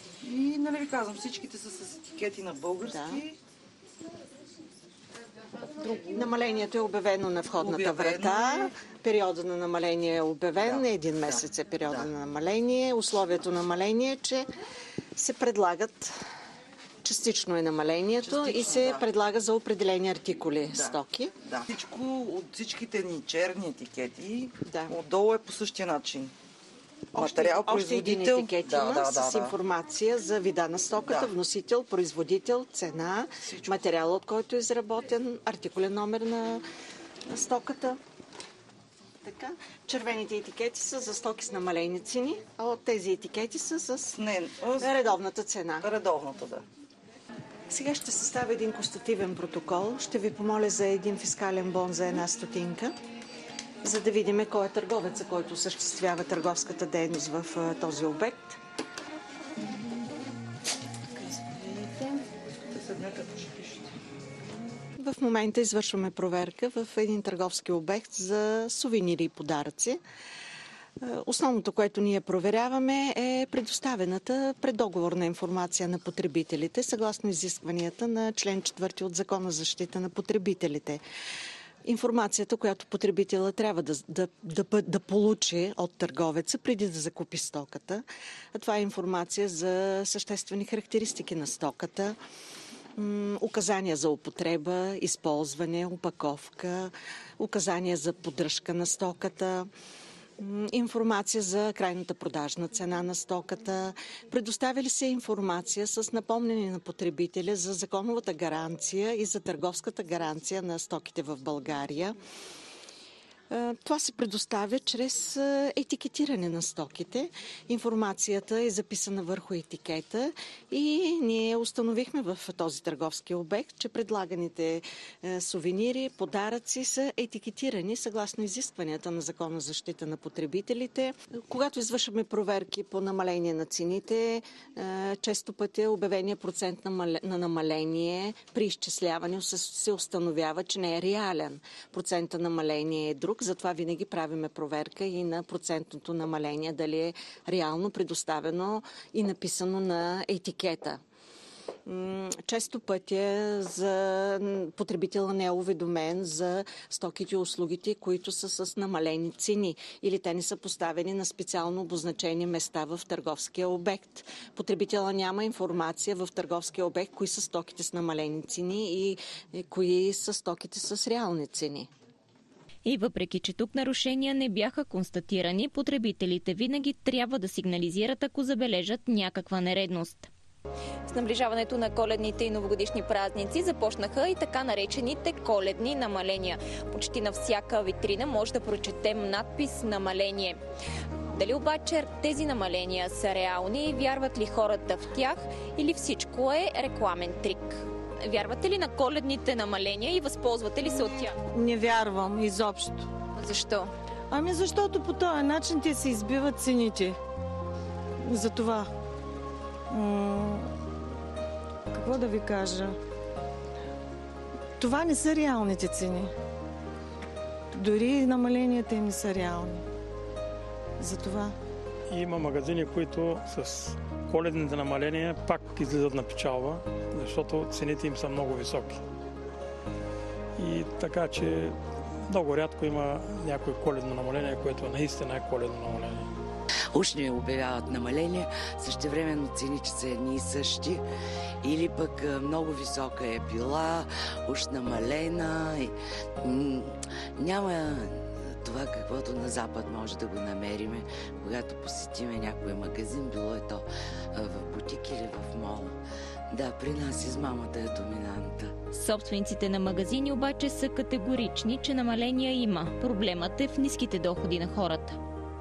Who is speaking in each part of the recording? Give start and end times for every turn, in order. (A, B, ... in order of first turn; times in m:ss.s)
0:00.2-0:03.4 A
0:02.8-0:03.2 B
0:05.8-0:06.2 A
0:06.1-0:14.4 B
0:07.6-0:08.7 A
0:10.6-0:10.8 A
0:15.2-0:16.1 B
0:17.0-0:21.3 B
0:18.2-0:19.0 A
0:20.7-0:26.3 A
0:24.6-0:25.0 B
0:27.1-0:29.6 A
0:27.1-0:36.6 B
0:33.4-0:33.9 A
0:37.3-0:38.0 B
0:39.2-0:44.2 B
0:44.1-0:45.0 A
0:44.8-0:45.9 B
0:45.8-0:46.6 A
0:47.7-0:52.9 B
0:53.8-0:58.6 B
1:01.3-1:02.2 A
1:02.7-1:03.8 A
1:05.0-1:10.0 B
1:11.0-1:21.0 B
1:21.8-1:32.1 B
1:33.0-1:39.7 B
1:40.4-1:52.1 B
1:53.5-2:31.0 B
2:31.8-2:51.9 B
2:52.8-3:00.3 C
3:01.1-3:10.6 C
3:11.3-3:21.3 C
3:21.6-3:23.0 D
3:23.4-3:23.9 C
3:24.3-3:27.2 D
3:28.3-3:28.8 D
3:29.9-3:30.6 D
3:31.9-3:32.9 D
3:34.8-3:36.3 D
3:37.7-3:39.8 D
3:41.0-3:41.5 D
3:42.1-3:49.0 E
3:50.6-3:56.3 E
3:56.9-4:01.0 F
4:01.6-4:16.0 F
4:16.5-4:18.7 F
4:18.9-4:25.2 C